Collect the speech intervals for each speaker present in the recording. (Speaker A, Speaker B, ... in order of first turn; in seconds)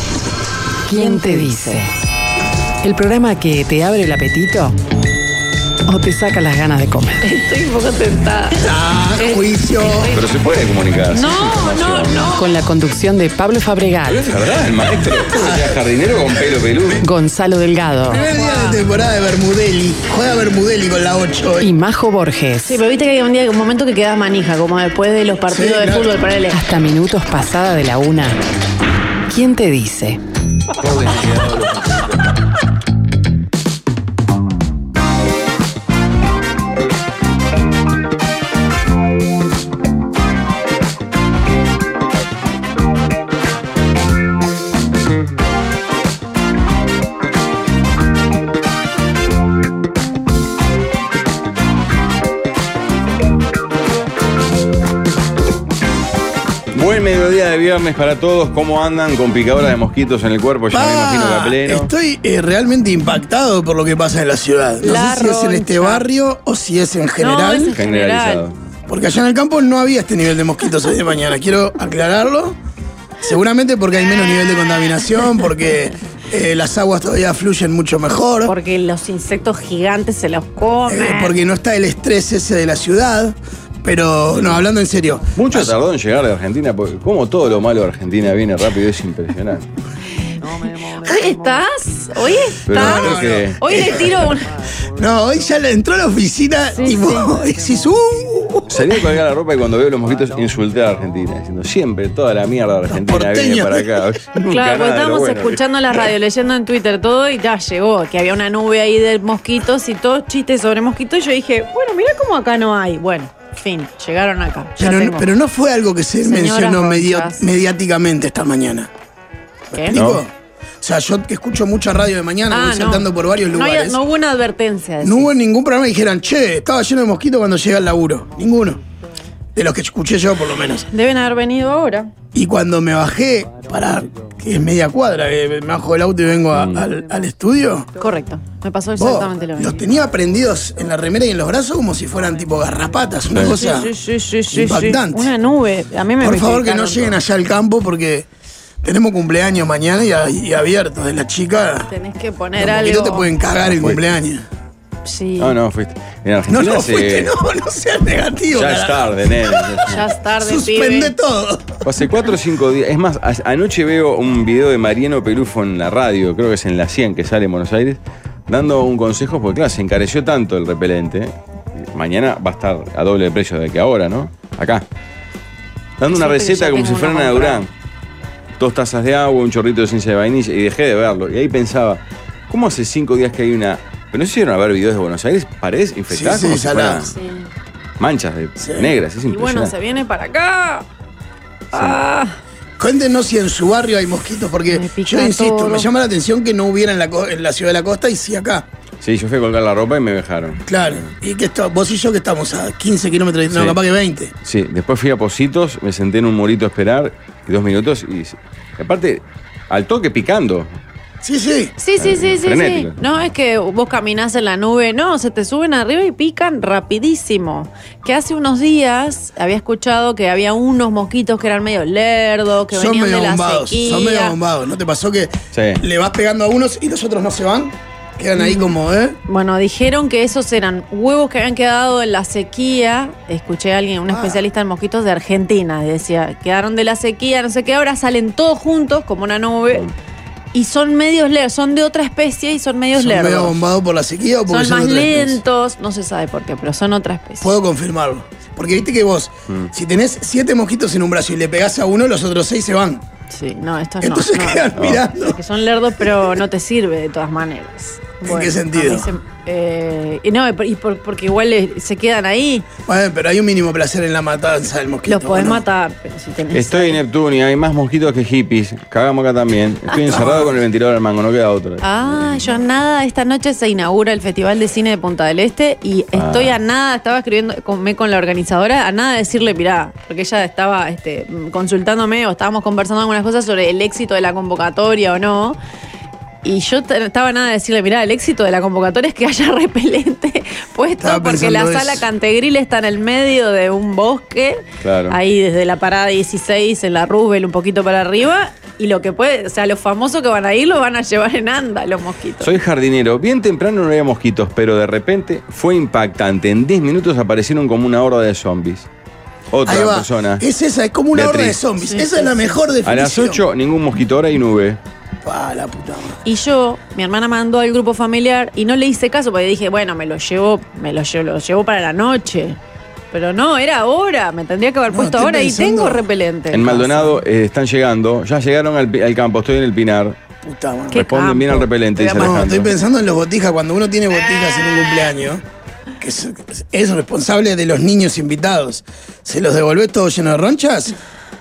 Speaker A: 0.8-1.9, 2.8-4.8, 5.8-7.2, 12.3-14.4, 17.0-18.2, 21.6-22.8, 26.5-28.4, 29.3-30.2
Speaker B: 1.0-1.8, 7.2-10.2, 11.1-12.5, 18.1-18.9, 22.7-26.6, 64.8-66.0, 67.2-68.4, 78.5-81.4, 90.9-94.5, 96.8-97.3, 104.5-115.3, 116.2-117.5, 119.7-120.0, 122.5-125.3, 130.9-132.1, 138.0-139.9, 143.4-147.2, 151.9-153.3, 155.1-155.6, 159.9-161.1, 176.1-177.7, 187.1-187.5, 189.3-190.8, 191.7-192.4, 194.7-195.9, 211.8-224.4, 228.4-239.9, 240.5-243.6, 244.5-247.5, 253.3-262.7, 265.1-267.0, 271.8-285.6, 286.4-302.5, 311.8-312.6, 316.2-322.6, 323.1-327.2, 330.9-332.4
Speaker C: 8.6-10.1, 15.3-15.8, 18.1-21.7, 25.5-26.2, 60.7-67.8, 68.9-72.6, 73.2-78.5, 80.9-85.8, 92.7-94.3, 95.0-99.1, 102.9-103.9, 114.8-118.9, 119.7-120.3, 120.8-124.0, 125.0-128.8, 129.6-130.9, 132.3-137.9, 139.0-143.9, 144.5-145.3, 146.2-148.3, 148.8-151.9, 152.6-154.4, 156.5-161.8, 186.1-187.1, 188.6-188.9, 192.8-198.7, 200.7-204.3, 211.2-211.7, 222.7-229.2, 234.1-234.4, 243.0-245.4, 247.4-253.0, 254.0-255.4, 256.0-256.4, 258.2-259.1, 262.9-265.6, 270.1-270.5, 291.0-292.1, 309.6-313.4, 315.2-316.2, 324.9-326.1, 330.4-331.0, 332.2-335.4, 336.0-340.9
Speaker D: 10.1-12.3, 14.1-17.0, 30.8-32.0, 56.7-61.9, 67.7-68.5, 84.3-84.7, 85.3-89.7, 92.7-94.1, 98.7-105.6, 119.9-120.2, 136.5-136.8, 153.6-154.0, 155.4-157.3, 158.5-160.0, 161.8-174.9, 176.0-177.7, 178.6-187.1, 188.0-189.7, 191.7-192.0, 199.0-201.1, 203.5-203.8, 204.4-210.7, 212.0-213.0, 225.5-225.8, 266.5-272.6, 276.1-276.6, 294.8-295.2, 302.4-308.9, 309.5-310.4, 311.1-311.6, 312.9-314.8, 326.5-330.2, 330.9-332.8